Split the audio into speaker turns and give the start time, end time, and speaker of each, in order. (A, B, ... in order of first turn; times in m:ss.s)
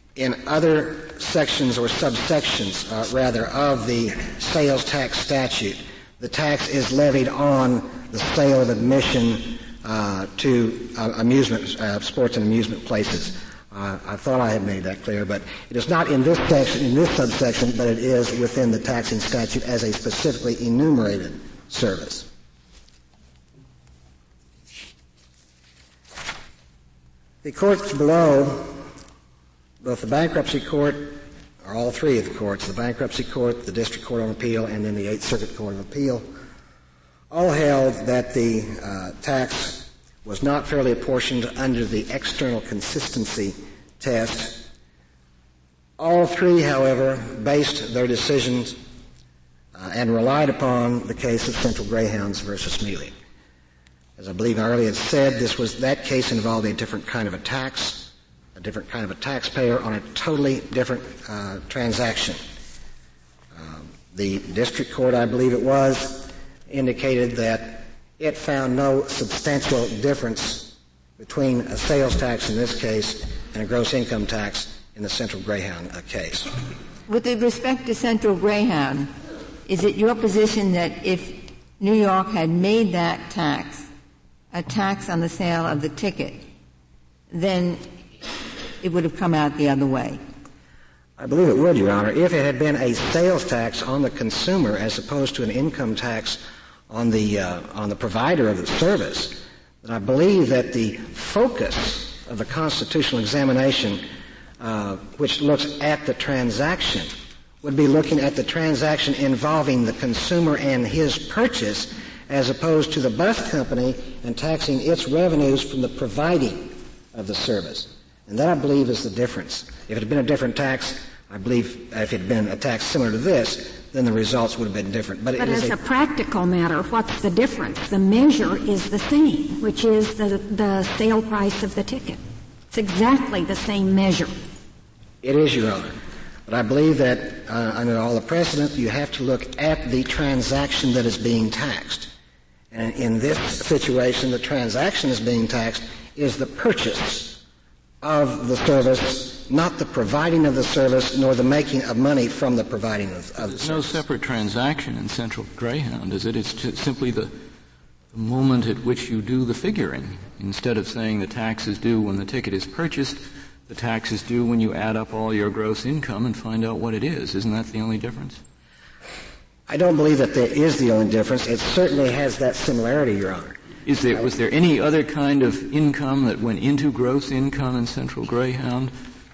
0:00.2-0:22.3 A
0:27.4-0:28.8 A
0:29.8-0:36.3 A
0:37.3-0:44.7 A
0:46.0-0:48.8 A
0:49.8-0:53.2 A
0:54.2-1:02.4 A
1:03.5-1:16.5 A
1:17.1-1:19.1 B
1:19.7-1:23.9 B
1:24.5-1:26.4 B
1:27.3-1:27.8 B
1:28.8-1:30.2 B
1:31.2-1:44.0 A
1:44.6-1:47.1 A
1:47.6-2:05.8 A
2:05.4-2:12.2 C
2:12.7-2:14.3 C
2:15.2-2:16.0 A
2:16.5-2:22.1 A
2:22.7-2:27.4 A
2:28.0-2:34.0 A
2:33.4-2:37.3 D
2:38.1-2:48.4 D
2:49.7-2:53.6 A
2:53.8-2:58.9 D